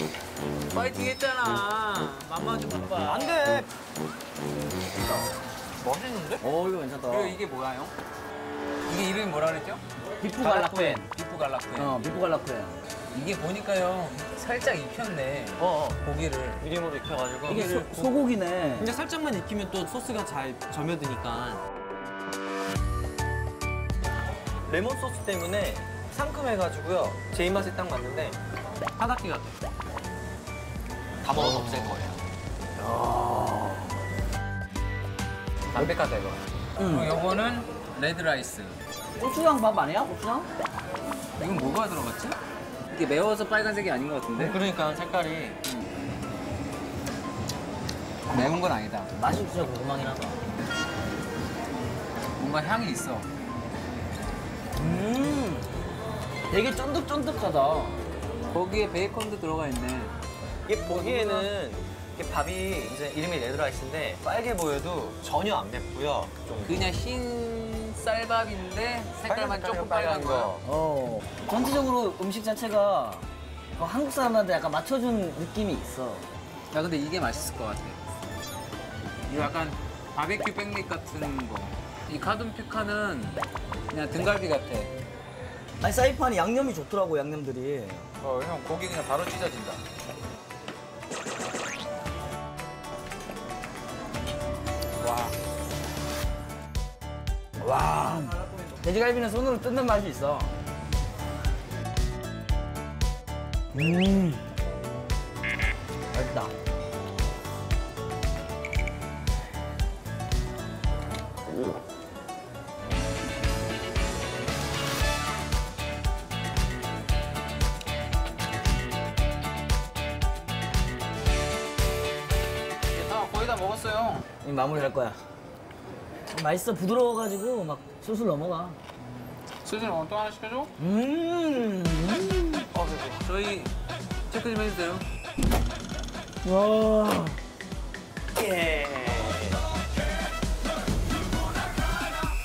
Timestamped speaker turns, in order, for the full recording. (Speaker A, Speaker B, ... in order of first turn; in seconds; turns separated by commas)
Speaker A: 0.7-3.4, Speaker B: 3.0-3.7, Speaker A: 5.8-6.4, Speaker C: 6.4-7.4, Speaker A: 7.1-7.9, Speaker A: 8.9-9.8, Speaker C: 10.2-11.1, Speaker A: 10.4-12.0, Speaker C: 11.7-12.8, Speaker A: 13.1-16.6, Speaker B: 15.6-16.0, Speaker B: 16.6-18.2, Speaker C: 17.4-18.9, Speaker B: 18.8-21.6, Speaker B: 24.7-28.4, Speaker B: 29.0-29.6, Speaker B: 31.2-32.2, Speaker C: 31.3-32.0, Speaker C: 32.8-33.9, Speaker A: 35.7-38.8, Speaker C: 36.8-37.1, Speaker C: 39.2-40.5, Speaker A: 41.4-42.4, Speaker A: 42.9-44.6, Speaker B: 44.3-45.6, Speaker A: 48.3-49.1, Speaker C: 49.1-50.4, Speaker A: 52.4-53.3, Speaker C: 54.8-55.7, Speaker C: 56.5-58.1, Speaker A: 58.5-60.1, Speaker B: 60.7-66.9, Speaker A: 60.8-61.5, Speaker A: 66.6-70.5, Speaker B: 69.3-70.6, Speaker C: 70.6-76.2, Speaker A: 76.7-78.1, Speaker A: 79.3-83.4, Speaker A: 83.9-84.9, Speaker C: 85.8-88.1, Speaker A: 88.2-89.8, Speaker A: 95.0-95.3, Speaker C: 97.6-100.5, Speaker C: 103.7-104.5, Speaker C: 106.1-106.5, Speaker A: 122.9-124.2, Speaker C: 124.4-125.2, Speaker C: 126.3-128.8, Speaker A: 129.6-130.7, Speaker C: 130.8-132.7, Speaker A: 132.7-133.7, Speaker A: 134.3-135.0, Speaker C: 136.4-137.4, Speaker B: 138.3-139.5